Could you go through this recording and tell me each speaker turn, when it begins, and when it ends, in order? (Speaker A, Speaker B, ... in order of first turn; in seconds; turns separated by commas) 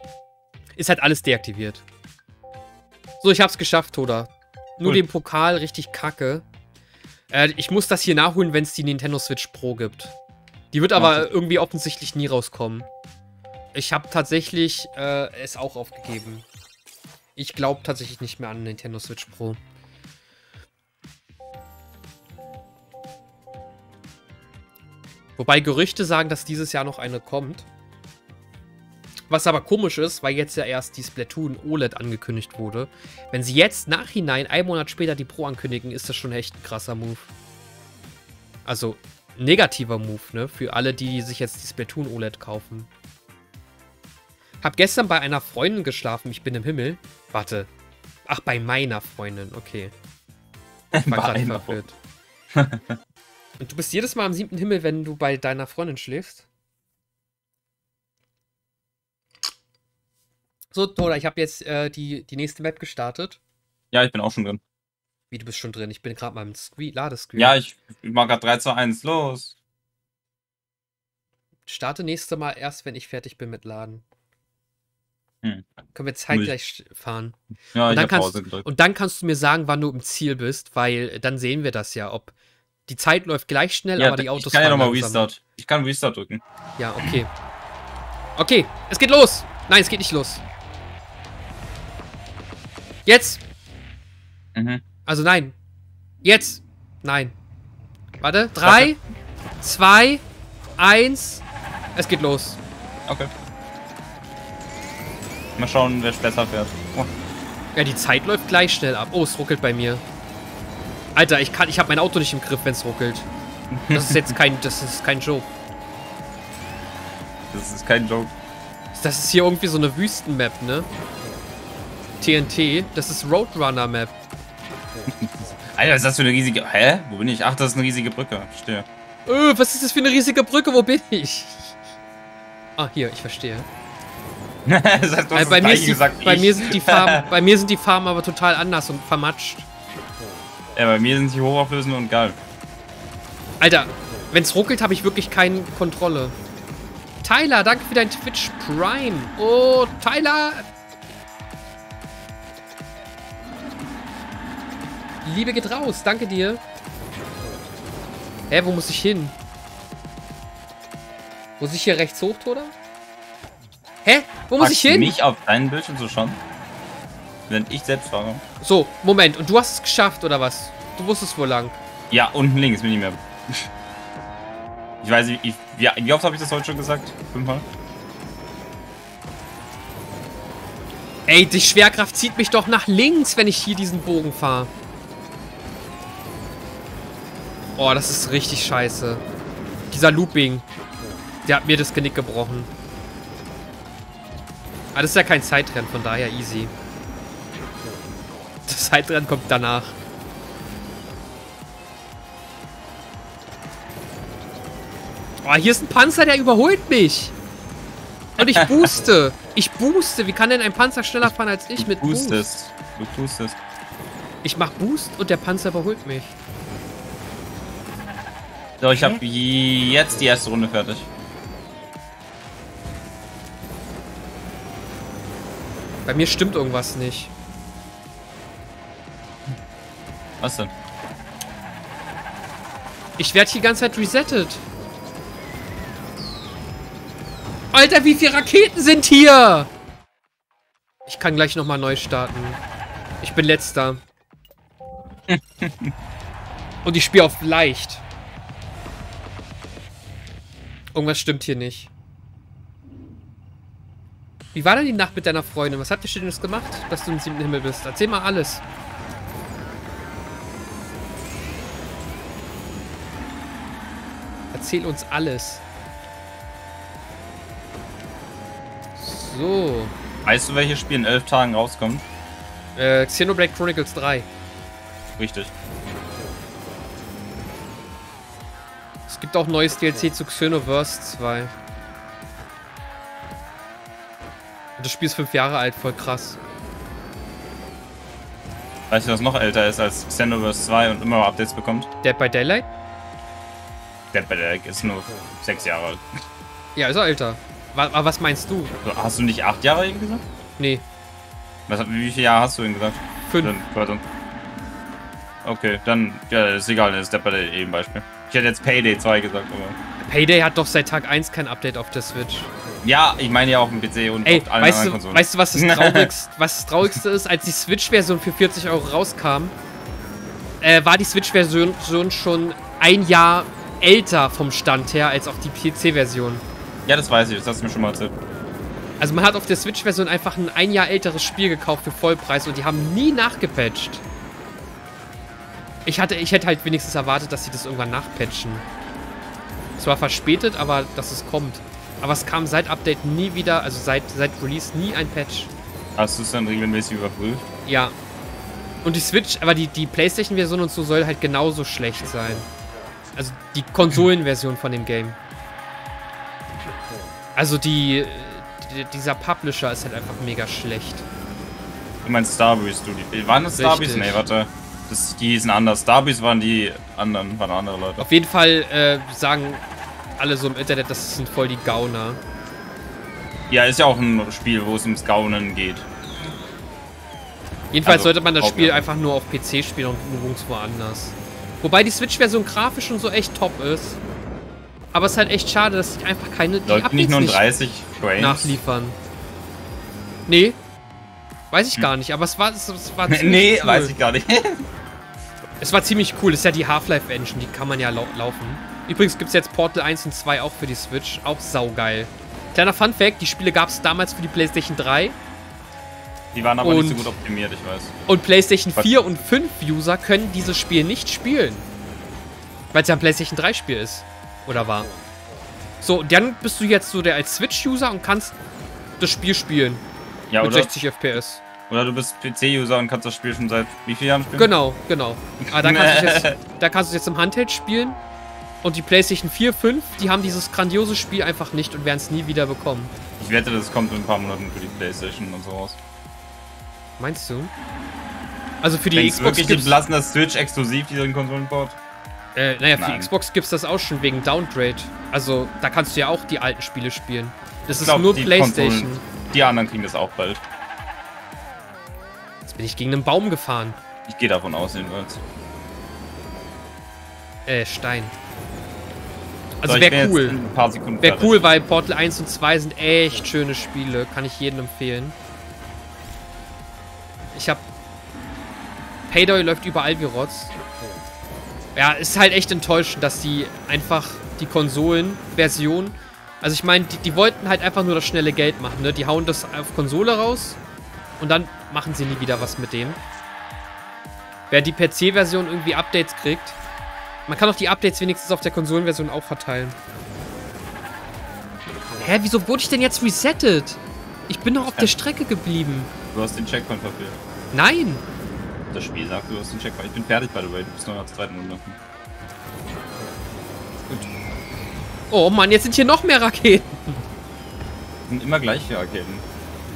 Speaker A: 0.8-1.8, Speaker A: 3.2-6.5, Speaker A: 7.3-10.1, Speaker A: 10.7-12.9, Speaker B: 10.9-11.3, Speaker A: 13.7-16.4, Speaker A: 17.4-19.6, Speaker A: 25.4-27.7, Speaker A: 29.3-37.3, Speaker A: 38.6-42.9, Speaker A: 44.6-47.7, Speaker A: 48.3-49.9, Speaker B: 50.9-51.8, Speaker A: 51.1-52.0, Speaker B: 52.5-52.9, Speaker A: 53.6-56.5, Speaker A: 60.7-63.4, Speaker B: 63.9-64.6, Speaker A: 65.3-67.6, Speaker B: 67.4-69.5, Speaker A: 71.7-74.0, Speaker A: 75.9-77.4, Speaker B: 77.7-78.7, Speaker A: 77.9-82.3, Speaker A: 82.9-85.3, Speaker B: 84.0-86.4, Speaker A: 86.8-87.3, Speaker A: 88.4-90.4, Speaker A: 93.0-93.4, Speaker B: 94.5-94.8, Speaker A: 95.0-95.5, Speaker A: 96.2-97.3, Speaker A: 98.2-99.0, Speaker B: 98.6-98.9, Speaker A: 99.6-100.2, Speaker A: 100.8-101.4, Speaker A: 102.0-102.6, Speaker B: 105.6-107.1, Speaker A: 107.7-110.0, Speaker A: 111.1-113.3, Speaker B: 113.7-114.3, Speaker A: 113.9-115.5, Speaker B: 117.5-118.3, Speaker A: 118.9-120.9, Speaker A: 122.2-124.1, Speaker B: 125.1-128.9, Speaker A: 129.3-131.8, Speaker A: 132.8-133.7, Speaker B: 134.6-137.2, Speaker A: 135.3-139.7, Speaker B: 140.7-142.4, Speaker A: 143.6-146.3, Speaker A: 147.2-150.6, Speaker A: 155.2-156.6, Speaker A: 158.5-159.3, Speaker A: 161.6-162.7, Speaker A: 164.0-165.2, Speaker B: 164.6-166.4, Speaker B: 167.5-168.4, Speaker A: 168.6-171.8, Speaker B: 172.1-173.7, Speaker B: 175.0-177.7, Speaker A: 181.3-184.7, Speaker A: 187.8-189.2, Speaker A: 189.9-190.6, Speaker A: 191.4-192.7, Speaker A: 194.9-196.7, Speaker A: 198.7-200.0, Speaker A: 205.4-207.3, Speaker B: 208.4-208.9, Speaker A: 208.4-212.5, Speaker B: 211.2-213.6, Speaker A: 214.4-216.4, Speaker B: 218.8-221.1, Speaker A: 218.9-219.2, Speaker A: 226.1-227.3, Speaker B: 230.4-230.7, Speaker A: 233.2-234.6, Speaker A: 237.7-239.7, Speaker A: 241.1-242.6, Speaker A: 243.2-244.0, Speaker B: 245.3-245.9, Speaker A: 246.8-248.0, Speaker A: 250.9-251.9, Speaker A: 254.5-258.6, Speaker A: 264.5-265.6, Speaker A: 269.0-269.9, Speaker B: 270.2-272.0, Speaker A: 272.8-274.3, Speaker B: 275.2-275.5, Speaker A: 279.1-281.5, Speaker A: 284.8-286.4, Speaker B: 288.9-291.9, Speaker A: 292.0-292.7, Speaker B: 294.1-296.1, Speaker A: 296.8-298.7, Speaker B: 298.8-300.2, Speaker A: 300.6-300.8, Speaker B: 301.7-304.0, Speaker A: 303.3-303.5, Speaker B: 305.4-309.8, Speaker A: 310.0-312.5, Speaker B: 312.8-316.1, Speaker A: 314.2-319.5, Speaker A: 320.6-326.4, Speaker B: 326.9-328.1, Speaker A: 329.0-334.0, Speaker A: 335.8-338.6, Speaker A: 339.8-345.5, Speaker B: 345.9-347.4, Speaker A: 347.6-347.9, Speaker A: 348.8-352.5, Speaker A: 353.1-355.2, Speaker A: 357.4-361.1, Speaker B: 362.0-368.0, Speaker A: 363.5-364.2, Speaker A: 368.0-369.6, Speaker A: 370.2-372.2, Speaker B: 373.5-375.9, Speaker A: 377.7-384.0, Speaker B: 377.8-378.9, Speaker A: 384.9-387.4, Speaker B: 386.6-388.6, Speaker A: 388.2-389.0, Speaker A: 390.3-390.6, Speaker A: 391.5-393.9, Speaker B: 393.1-394.6, Speaker A: 395.6-405.2, Speaker B: 406.3-407.9, Speaker A: 406.6-407.1, Speaker A: 408.1-411.7, Speaker A: 412.7-414.9, Speaker A: 415.8-418.4, Speaker A: 419.0-419.8, Speaker B: 420.3-420.7, Speaker A: 420.4-421.4, Speaker B: 421.7-424.5, Speaker A: 424.3-428.0, Speaker B: 425.5-426.4, Speaker A: 428.6-432.9, Speaker B: 433.2-435.8, Speaker A: 437.0-437.5, Speaker A: 438.6-439.8, Speaker B: 438.9-441.8, Speaker A: 442.3-449.0, Speaker B: 442.8-443.1, Speaker B: 447.7-450.4, Speaker A: 452.4-453.8, Speaker B: 454.1-455.2, Speaker A: 457.4-458.1, Speaker A: 459.6-460.4, Speaker B: 459.6-461.4, Speaker A: 461.0-465.1, Speaker A: 467.3-467.6, Speaker A: 469.1-470.5, Speaker A: 471.8-480.6, Speaker A: 481.2-483.0, Speaker A: 484.5-486.6, Speaker A: 487.3-489.8, Speaker A: 492.0-495.9, Speaker B: 494.6-495.0, Speaker B: 496.1-497.2, Speaker A: 497.5-498.0, Speaker B: 498.7-501.8, Speaker A: 505.1-507.1, Speaker B: 508.1-509.2